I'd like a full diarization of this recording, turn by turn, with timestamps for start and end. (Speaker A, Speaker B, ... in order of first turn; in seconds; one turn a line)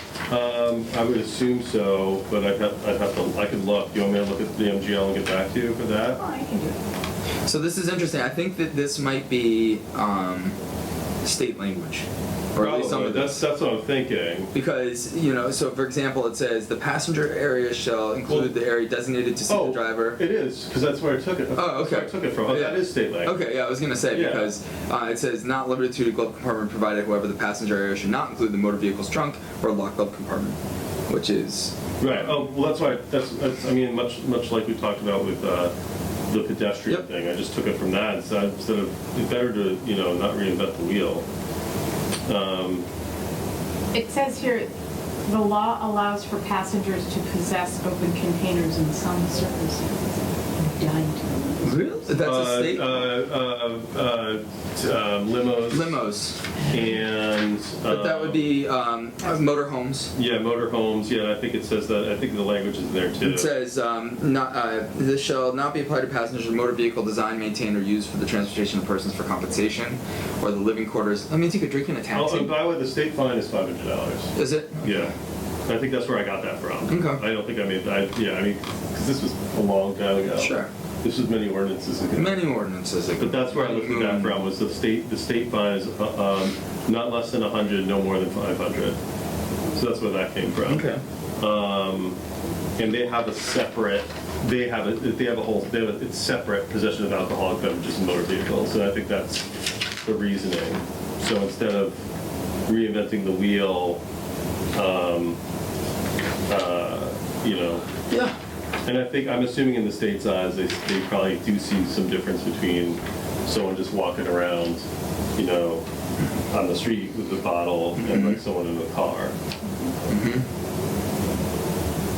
Speaker A: 0.3-6.2
Speaker B: 6.2-6.8
Speaker C: 7.5-10.5
Speaker C: 11.2-13.4
Speaker A: 12.6-14.5
Speaker C: 14.5-20.2
Speaker A: 19.5-23.3
Speaker C: 21.5-30.6
Speaker A: 24.1-24.5
Speaker C: 31.1-32.4
Speaker A: 32.0-35.7
Speaker A: 36.3-41.2
Speaker A: 42.3-42.8
Speaker B: 43.9-44.7
Speaker B: 45.3-52.1
Speaker C: 51.6-53.1
Speaker A: 52.2-56.0
Speaker C: 55.7-56.4
Speaker A: 56.7-58.5
Speaker C: 57.9-60.1
Speaker A: 60.1-63.5
Speaker C: 63.2-72.6
Speaker A: 72.1-74.3
Speaker C: 74.3-75.1
Speaker A: 74.8-75.1
Speaker A: 75.7-82.4
Speaker C: 76.9-77.2
Speaker C: 80.4-80.7
Speaker C: 82.1-84.5
Speaker A: 83.2-89.0
Speaker A: 89.7-90.9
Speaker C: 90.6-91.0
Speaker A: 91.4-92.2
Speaker A: 92.8-99.5
Speaker A: 100.0-102.0
Speaker A: 102.7-104.0
Speaker A: 104.7-105.4
Speaker A: 106.5-107.8
Speaker C: 108.1-108.3
Speaker A: 108.8-114.8
Speaker A: 115.3-115.8
Speaker A: 116.5-119.3
Speaker C: 118.0-118.4
Speaker C: 120.1-120.4